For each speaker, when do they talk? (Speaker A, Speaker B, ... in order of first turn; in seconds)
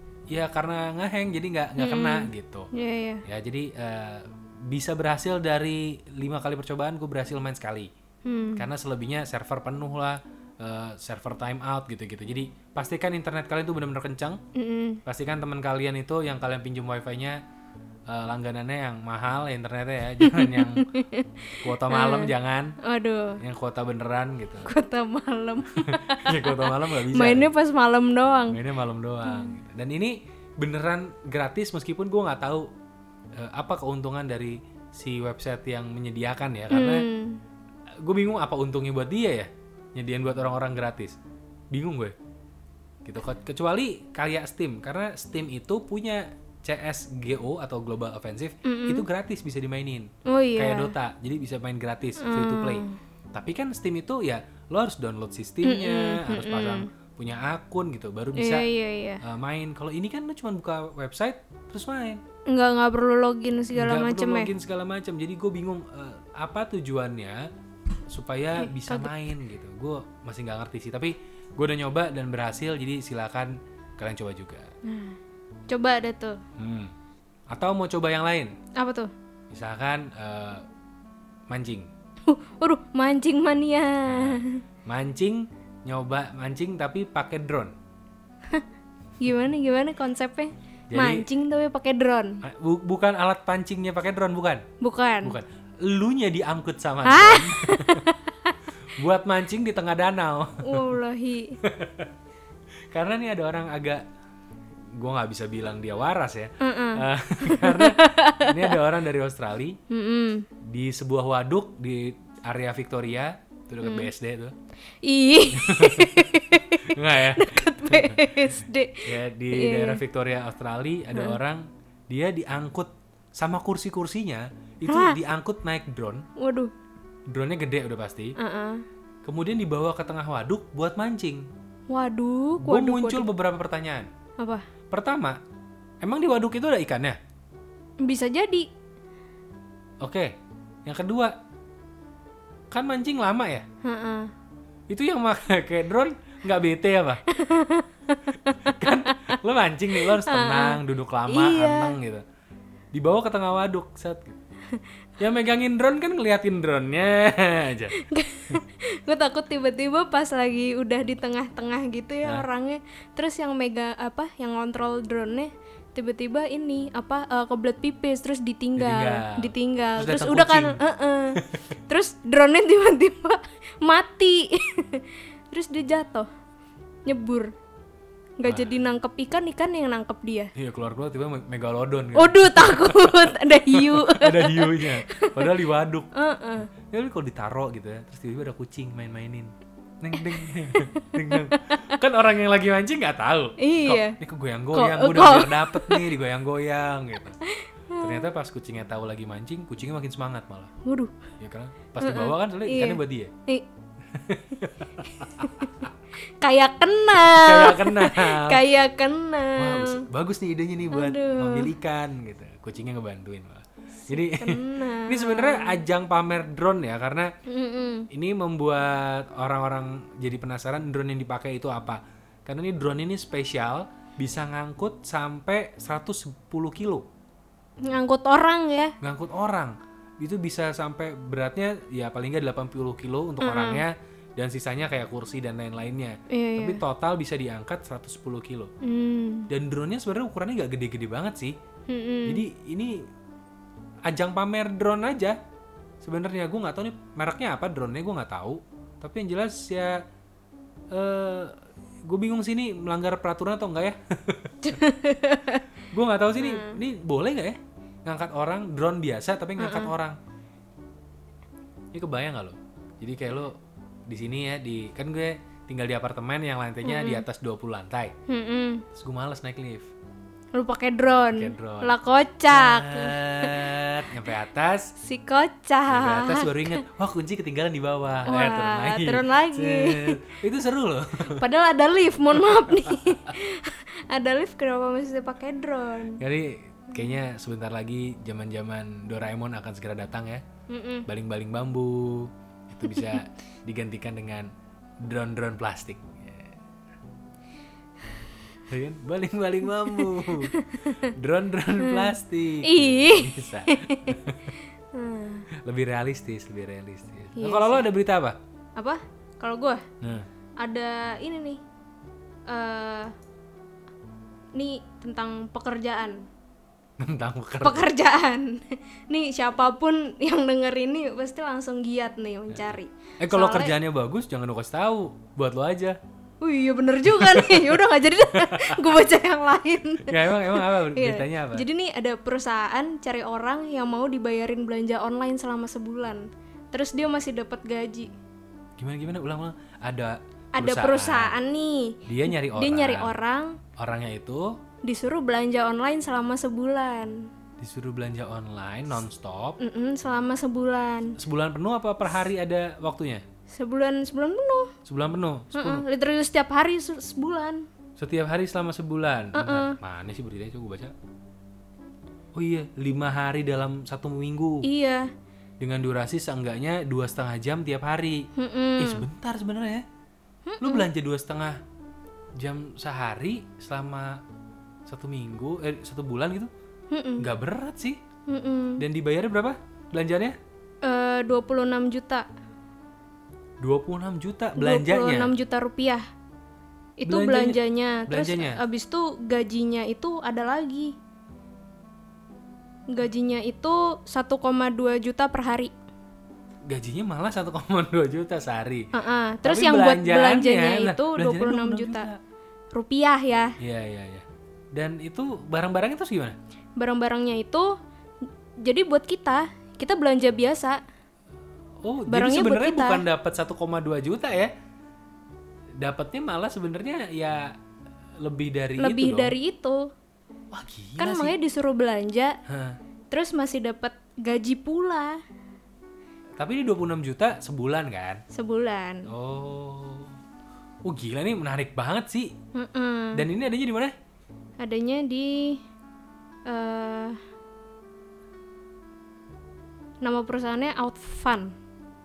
Speaker A: 0.3-2.7, 3.2-7.9, 8.6-14.4, 15.1-17.4, 18.1-20.9, 21.6-22.8, 23.4-24.7, 25.8-27.5, 28.5-32.7, 33.4-37.0, 38.0-41.2, 41.7-42.1, 43.0-58.7, 59.2-62.2, 63.8-67.5, 68.1-74.7, 76.6-76.9, 77.5-78.5, 79.5-80.6, 81.5-81.9, 84.1-87.7, 90.9-91.3, 92.4-94.7, 95.2-98.1, 99.0-100.9, 101.6-102.1, 102.9-104.0, 105.0-109.8, 110.7-114.5, 115.5-126.3, 127.3-128.4, 129.2-131.5, 132.6-134.1, 134.9-135.4, 136.0-137.2, 140.0-140.3, 140.9-141.3, 142.7-143.7, 144.9-147.2, 148.6-152.2, 152.9-154.4, 155.2-158.0, 168.8-170.8, 171.3-171.6, 178.4-178.7, 180.6-186.1, 186.9-197.4, 198.0-200.7, 201.4-203.3, 204.1-205.9, 207.2-208.6, 209.6-217.3, 218.1-227.1, 229.0-238.7, 239.5-241.6, 242.3-243.0, 244.1-245.4, 246.0-250.0, 250.9-251.5, 252.1-254.8, 255.9-260.2, 261.9-263.6, 264.1-268.1, 268.9-269.9, 271.4-271.9, 272.5-274.9, 275.9-281.4, 282.6-283.0, 286.2-290.4, 291.1-294.5, 295.0-296.6, 298.7-304.6, 305.6-308.4, 317.0-317.9, 322.5-326.0, 327.1-328.9, 330.1-331.7, 338.8-341.4, 342.1-343.1, 343.8-344.6, 347.6-349.6, 351.2-353.2, 354.9-355.8, 358.0-360.9, 362.4-364.7, 365.6-368.3, 368.8-369.9, 370.6-371.6, 372.4-374.2, 374.9-376.5, 377.2-378.0, 378.8-380.4, 383.6-385.3, 387.1-388.6, 396.7-398.9, 399.4-402.2, 403.6-406.4, 411.8-414.5, 415.8-417.5, 418.2-419.4, 420.5-421.4, 422.5-422.8, 426.4-428.2, 429.1-430.1, 430.9-432.3, 433.1-433.9
Speaker B: 1.8-3.2, 8.2-8.7, 14.6-15.0, 20.2-23.4, 24.6-28.6, 29.2-29.6, 36.7-37.4, 48.6-49.1, 50.3-50.9, 52.2-53.0, 55.6-56.9, 58.4-59.2, 62.5-64.5, 68.6-69.2, 74.8-75.2, 75.7-76.4, 78.8-79.1, 82.3-84.6, 89.2-92.4, 94.8-95.4, 97.0-98.5, 100.6-101.6, 106.6-108.8, 109.9-110.5, 113.8-114.1, 115.0-120.0, 124.9-125.2, 126.4-126.7, 128.4-128.8, 131.9-133.3, 134.4-134.7, 138.0-138.7, 143.8-144.3, 147.3-149.4, 149.9-152.0, 157.9-176.3, 177.1-177.5, 178.4-180.5, 182.2-185.5, 186.1-186.7, 190.2-191.8, 193.6-194.2, 194.7-196.1, 197.4-198.3, 200.8-201.2, 202.0-203.7, 205.3-205.7, 206.4-210.1, 210.9-211.7, 214.1-215.8, 217.5-218.1, 227.8-228.9, 233.4-233.8, 236.3-236.8, 238.8-239.5, 241.9-242.4, 254.6-255.6, 256.4-256.8, 259.6-259.9, 266.8-267.3, 268.3-268.8, 270.6-273.6, 275.0-276.8, 278.3-280.2, 281.3-286.2, 290.7-291.1, 292.9-293.2, 300.0-301.0, 301.8-304.2, 304.9-305.5, 307.4-307.9, 308.8-309.8, 310.6-311.6, 312.5-313.1, 314.6-316.3, 317.6-323.7, 326.4-338.1, 340.6-343.6, 344.8-347.3, 349.6-351.1, 353.5-354.7, 355.5-357.7, 359.3-359.8, 364.6-365.1, 368.4-369.1, 370.5-370.9, 376.9-377.3, 378.3-378.8, 380.8-382.3, 384.6-386.1, 387.0-391.0, 392.9-395.7, 398.9-402.1, 402.7-403.6, 406.8-407.8, 408.6-410.8, 412.1-413.0, 418.8-419.9, 421.0-422.4, 423.1-425.2, 428.3-429.1, 432.5-433.2, 434.6-435.6, 436.5-437.2, 440.0-441.6